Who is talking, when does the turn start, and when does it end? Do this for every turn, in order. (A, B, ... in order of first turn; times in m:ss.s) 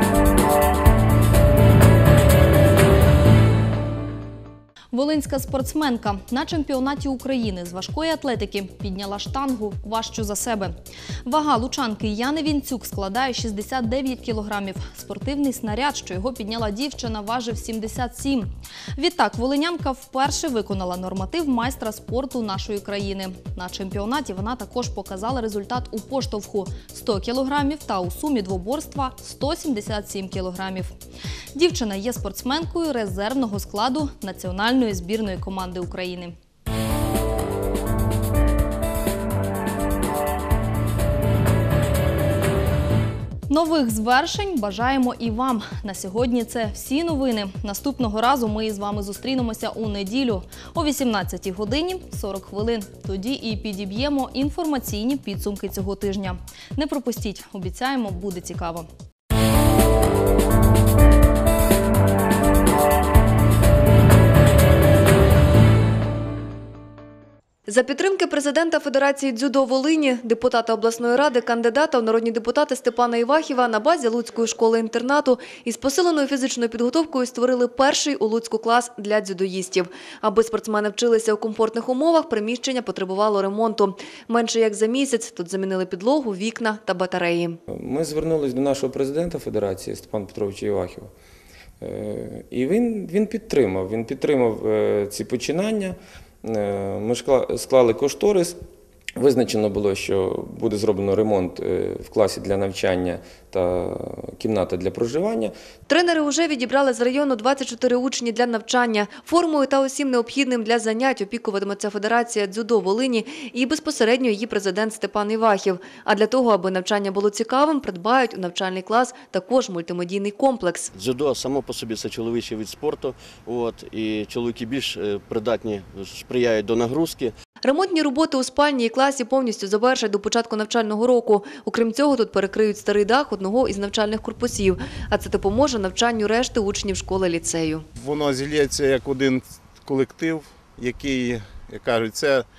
0:04.9-0:30.9 A
0:31.6-0:36.4 A
0:43.5-0:58.9 A
1:07.7-1:27.6 B
1:27.7-1:31.1 C
1:31.8-1:38.6 C
1:39.2-1:45.5 C
1:45.9-2:00.9 B
2:00.9-2:07.3 D
2:07.6-2:17.9 B
2:18.0-2:22.5 E